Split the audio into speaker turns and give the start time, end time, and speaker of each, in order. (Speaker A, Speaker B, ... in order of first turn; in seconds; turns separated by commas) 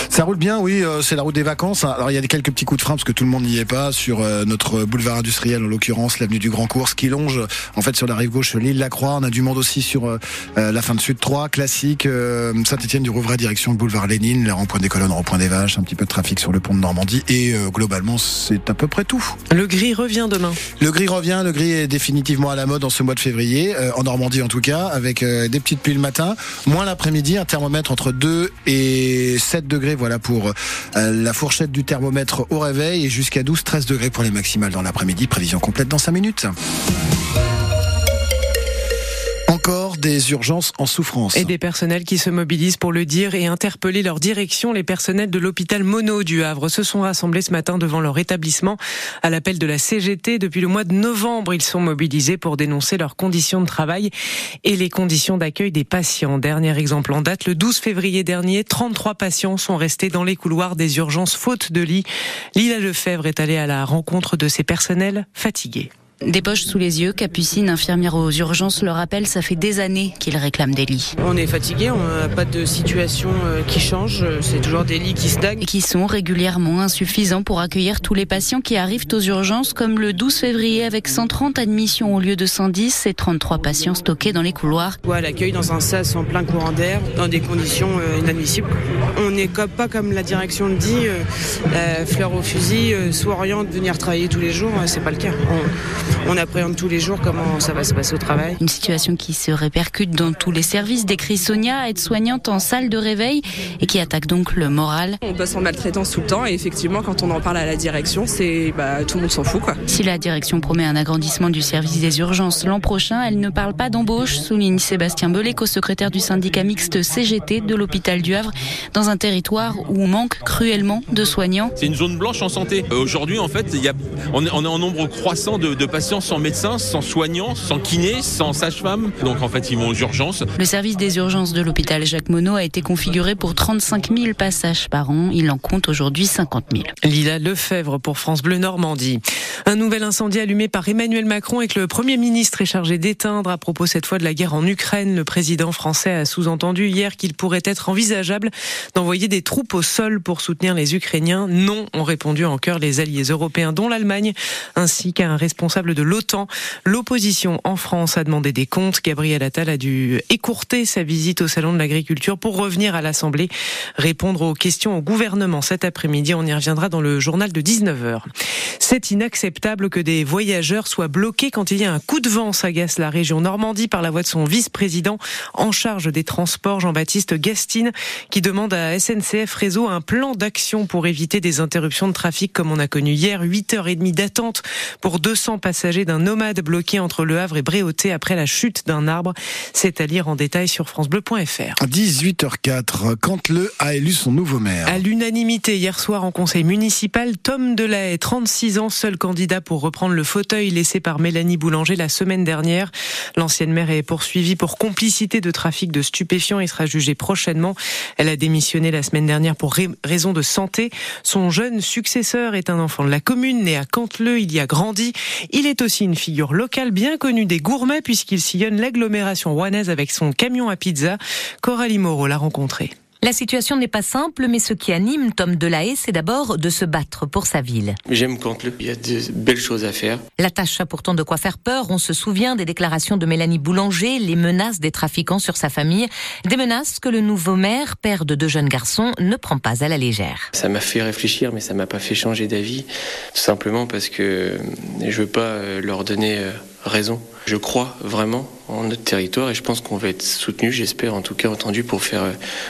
Speaker A: 0.1-19.3, Speaker B: 19.5-20.6, Speaker A: 20.8-36.5, Speaker A: 39.5-41.5, Speaker B: 41.3-54.1, Speaker B: 54.6-65.9, Speaker C: 66.2-71.1, Speaker D: 71.2-75.6, Speaker C: 75.6-85.0, Speaker D: 85.0-95.7, Speaker D: 96.2-98.6, Speaker C: 98.6-105.2, Speaker E: 105.2-109.8, Speaker C: 109.9-121.7, Speaker F: 121.8-130.4, Speaker C: 130.6-136.9, Speaker B: 137.0-168.2, Speaker B: 168.8-191.8, Speaker A: 191.8-195.0, Speaker B: 194.8-222.9, Speaker G: 223.2-228.0, Speaker H: 228.1-230.2, Speaker G: 230.4-240.5, Speaker H: 240.6-252.3